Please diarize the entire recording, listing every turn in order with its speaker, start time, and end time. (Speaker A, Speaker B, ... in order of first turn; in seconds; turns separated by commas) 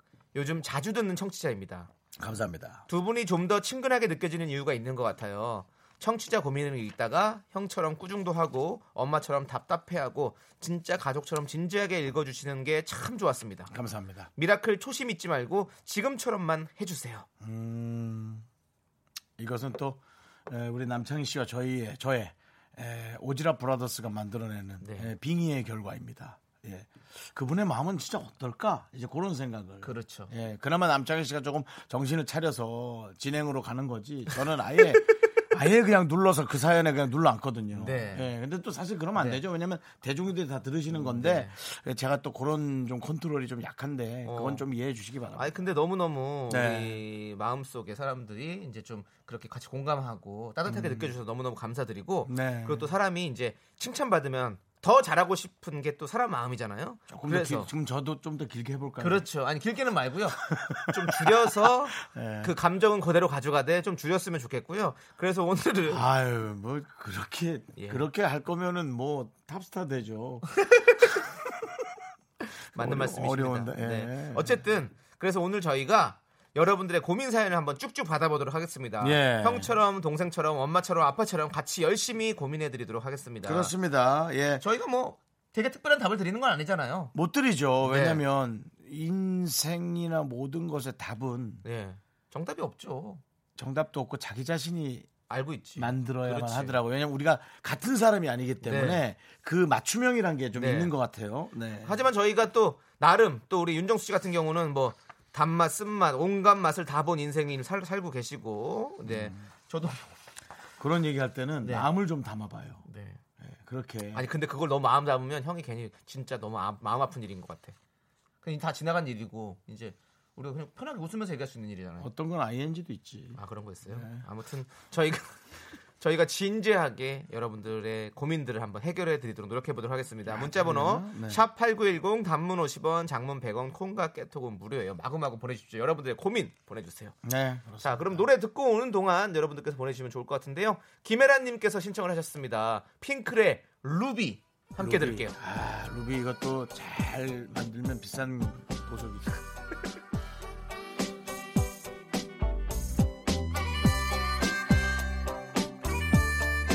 Speaker A: 0.3-1.9, Speaker B: 2.2-2.8, Speaker A: 2.9-13.7, Speaker B: 13.7-14.3, Speaker A: 14.3-17.2, Speaker B: 17.4-18.4, Speaker B: 19.4-45.6, Speaker A: 24.8-25.1, Speaker A: 29.8-30.3, Speaker A: 37.7-38.3, Speaker A: 39.1-39.4, Speaker A: 40.9-41.5, Speaker A: 44.2-44.6, Speaker A: 45.4-57.7, Speaker B: 46.5-47.0, Speaker B: 50.7-51.1, Speaker B: 52.2-52.9, Speaker B: 57.1-59.2, Speaker A: 59.0-66.0, Speaker B: 60.4-62.5, Speaker B: 65.9-70.5, Speaker A: 67.8-68.0, Speaker B: 71.0-71.7, Speaker B: 72.7-74.6, Speaker A: 72.7-83.7, Speaker B: 79.0-79.7, Speaker B: 83.4-84.6, Speaker A: 84.6-87.1, Speaker B: 87.1-91.6, Speaker A: 87.8-88.2, Speaker A: 91.6-93.2, Speaker B: 93.5-95.1, Speaker A: 95.3-96.8, Speaker B: 95.8-102.0, Speaker A: 98.6-99.0, Speaker A: 100.5-100.9, Speaker A: 101.8-110.0, Speaker B: 109.0-109.5, Speaker B: 110.8-112.8, Speaker A: 111.6-111.9, Speaker A: 112.8-113.2, Speaker B: 113.4-114.3, Speaker A: 114.1-117.7, Speaker A: 118.4-122.1, Speaker B: 122.0-124.2, Speaker A: 123.3-125.4, Speaker A: 126.0-137.2, Speaker B: 130.2-131.4, Speaker B: 137.2-138.3, Speaker A: 137.8-145.3, Speaker B: 144.8-149.4